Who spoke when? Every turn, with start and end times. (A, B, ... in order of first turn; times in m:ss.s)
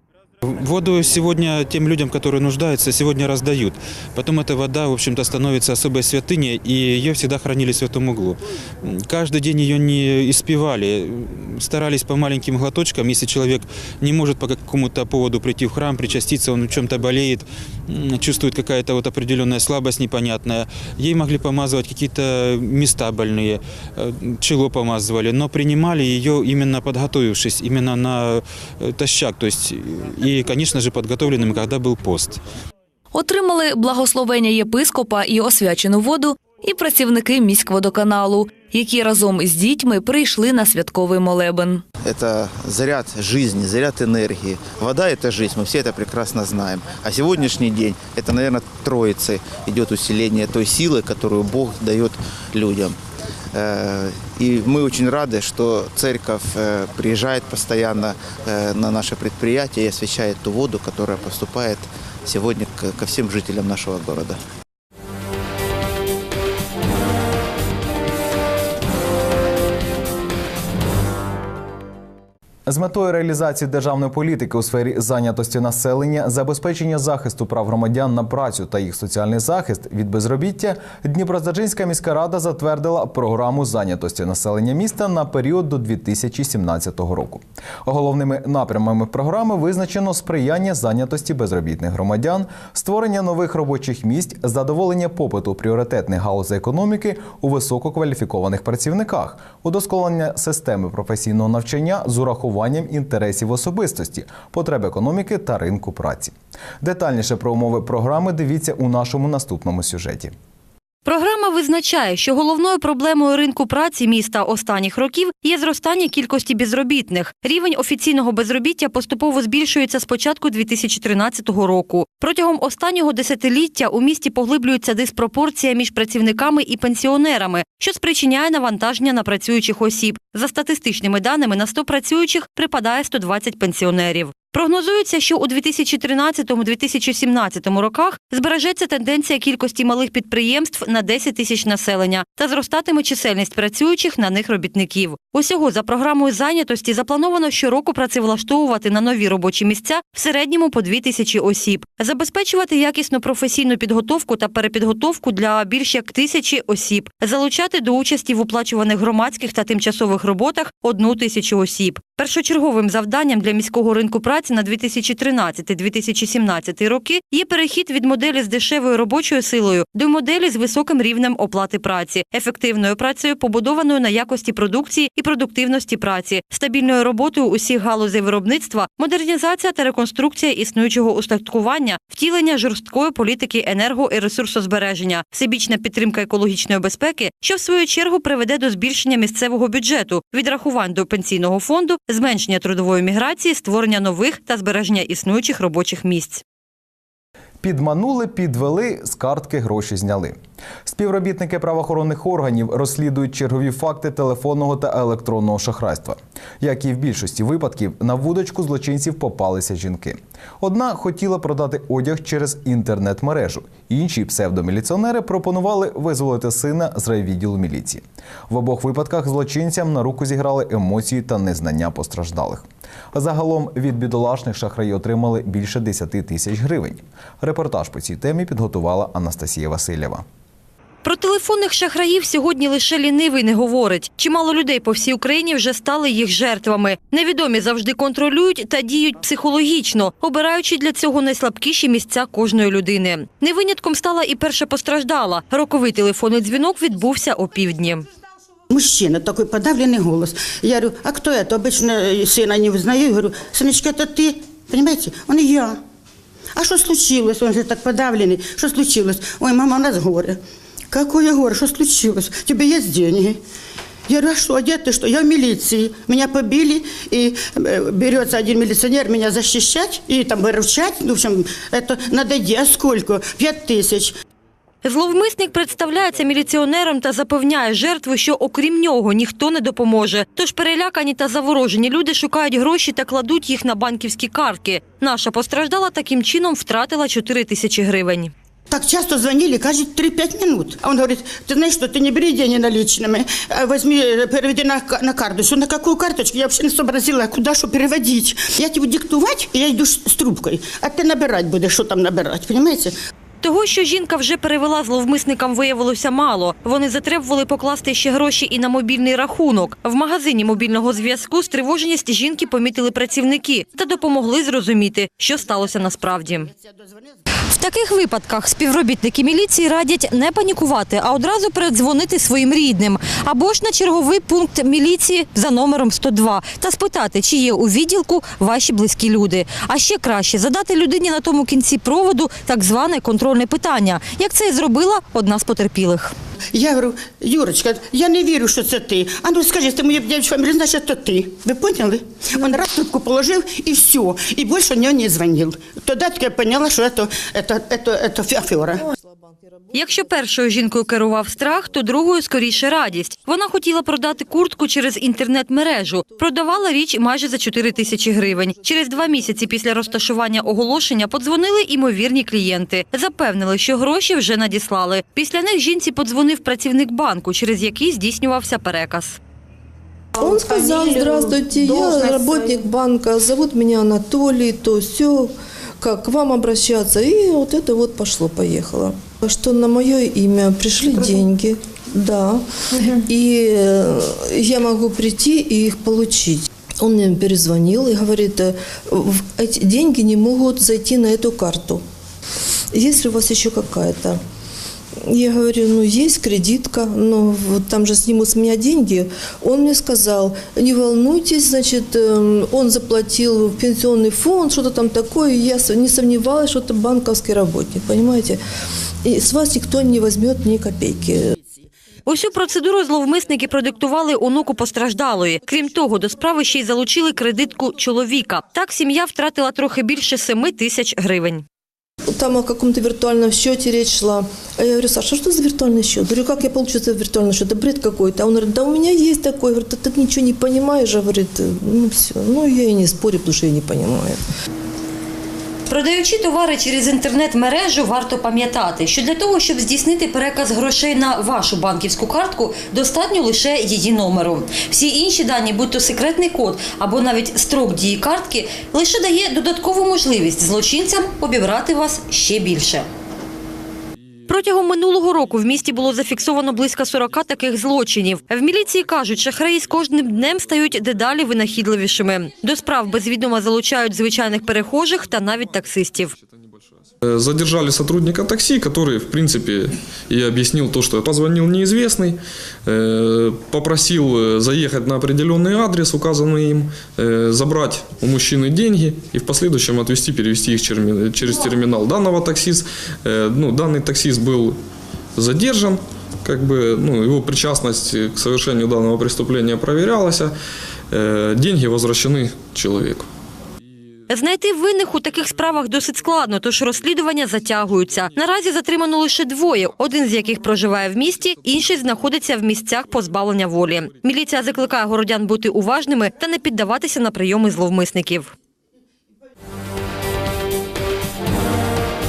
0:00.4-0:32.4 A
0:33.1-0:41.8 B
0:42.0-0:53.0 C
0:53.5-1:04.4 C
1:12.7-1:50.3 D
1:51.0-3:16.4 E
3:17.6-3:50.2 D
3:51.0-4:08.0 E
4:08.7-4:15.8 F
4:16.6-4:20.4 F
4:20.9-4:23.4 F
4:24.1-4:34.1 F
4:34.8-4:48.3 E
4:48.7-5:02.9 F
5:03.4-5:16.5 E
5:17.5-5:36.1 E
5:36.5-5:48.8 F
5:49.7-6:09.2 E
6:10.2-6:31.8 G
6:10.2-6:12.6 F
6:20.9-6:21.2 F
6:32.7-6:34.2 G
6:35.0-6:48.4 G
6:49.0-6:51.4 G
6:52.0-7:01.4 E
7:02.1-7:14.2 G
7:15.7-7:32.9 E
7:34.3-7:46.1 E
7:47.0-8:04.6 H
8:05.2-8:10.3 H
8:10.9-8:13.1 H
8:14.1-8:28.3 E